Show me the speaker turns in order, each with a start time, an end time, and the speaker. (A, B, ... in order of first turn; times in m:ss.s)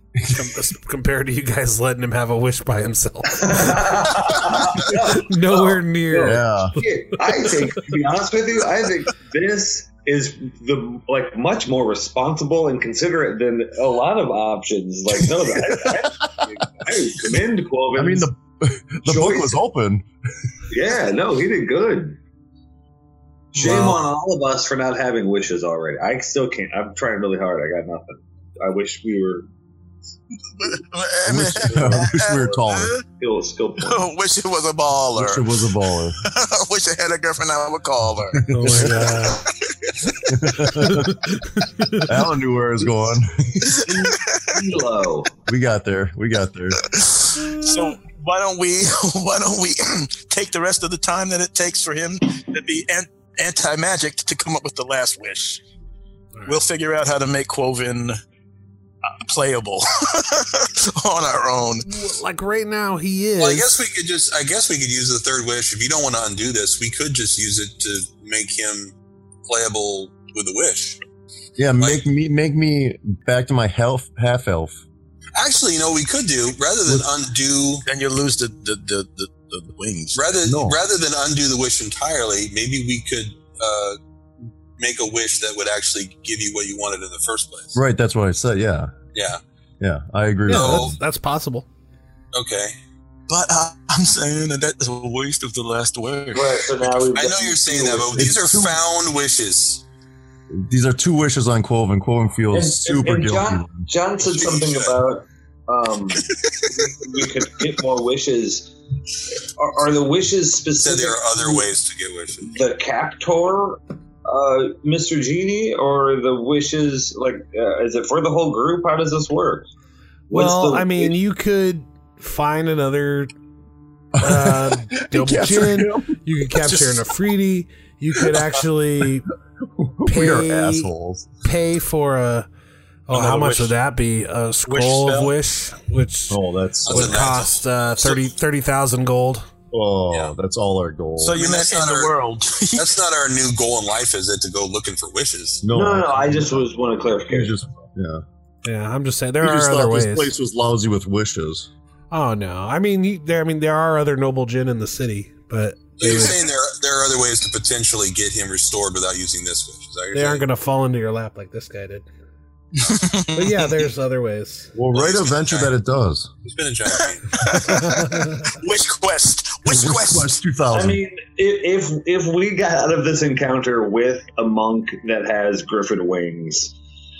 0:00.2-0:03.8 A
0:03.4-0:18.2 B
0:04.9-0:07.2 A
0:06.2-0:06.7 C
0:15.5-0:16.3 C
0:17.9-0:20.0 C
0:19.0-0:19.6 B
0:20.7-0:22.2 B
0:23.5-0:24.0 C
0:23.5-0:29.5 B
0:23.7-0:24.0 D
0:30.6-0:33.0 D
0:31.2-0:33.0 C
0:31.7-0:32.6 B
0:33.1-0:34.1 B
0:33.8-0:35.5 D
0:35.1-0:36.2 C
0:36.2-0:39.1 D
0:38.4-0:39.1 C
0:38.5-0:39.4 A
0:40.0-0:40.3 D
0:40.2-0:41.2 C
0:40.8-0:41.1 A
0:41.6-0:42.0 A
0:42.0-0:43.8 C
0:43.8-0:45.3 B
0:44.1-0:44.4 D
0:45.5-0:46.8 C
0:46.9-0:55.6 D
0:56.3-0:56.7 A
0:56.4-0:58.2 D
0:59.1-1:01.9 D
1:01.9-1:03.7 A
1:03.4-1:08.9 E
1:09.4-1:11.0 E
1:11.6-1:14.8 C
1:15.4-1:17.8 E
1:17.8-1:20.2 D
1:20.1-1:24.0 E
1:20.4-1:20.8 C
1:24.8-1:27.8 E
1:27.7-1:28.9 C
1:29.1-1:29.4 E
1:29.8-1:30.9 C
1:30.5-1:30.9 E
1:30.5-1:31.7 A
1:32.3-1:32.7 E
1:33.3-1:37.0 D
1:36.3-1:38.3 B
1:37.1-1:39.8 E
1:38.2-1:38.8 C
1:40.5-1:43.9 C
1:42.5-1:48.7 B
1:44.2-1:45.0 E
1:49.6-1:51.7 B
1:50.8-1:52.6 E
1:52.5-1:59.7 B
2:00.3-2:01.2 B
2:00.3-2:03.3 A
2:04.1-2:06.2 C
2:04.2-2:09.3 A
2:06.6-2:07.0 D
2:09.8-2:11.3 C
2:10.0-2:10.9 A
2:11.4-2:12.5 A
2:13.1-2:19.5 A
2:13.1-2:13.8 D
2:14.7-2:15.3 D
2:16.3-2:17.2 C
2:16.8-2:18.2 E
2:19.7-2:21.4 C
2:21.2-2:23.0 D
2:21.3-2:22.2 E
2:22.7-2:25.6 E
2:25.6-2:26.7 C
2:25.7-2:27.6 B
2:27.3-2:28.2 C
2:28.6-2:30.3 A
2:29.4-2:31.7 C
2:32.1-2:36.4 A
2:36.0-2:40.4 E
2:40.1-2:42.1 A
2:42.8-2:43.7 D
2:43.3-2:44.7 A
2:44.7-2:46.3 C
2:44.9-2:45.7 E
2:46.4-2:47.9 E
2:47.0-2:50.4 D
2:47.6-2:48.4 A
2:49.6-2:51.0 C
2:50.7-2:56.7 B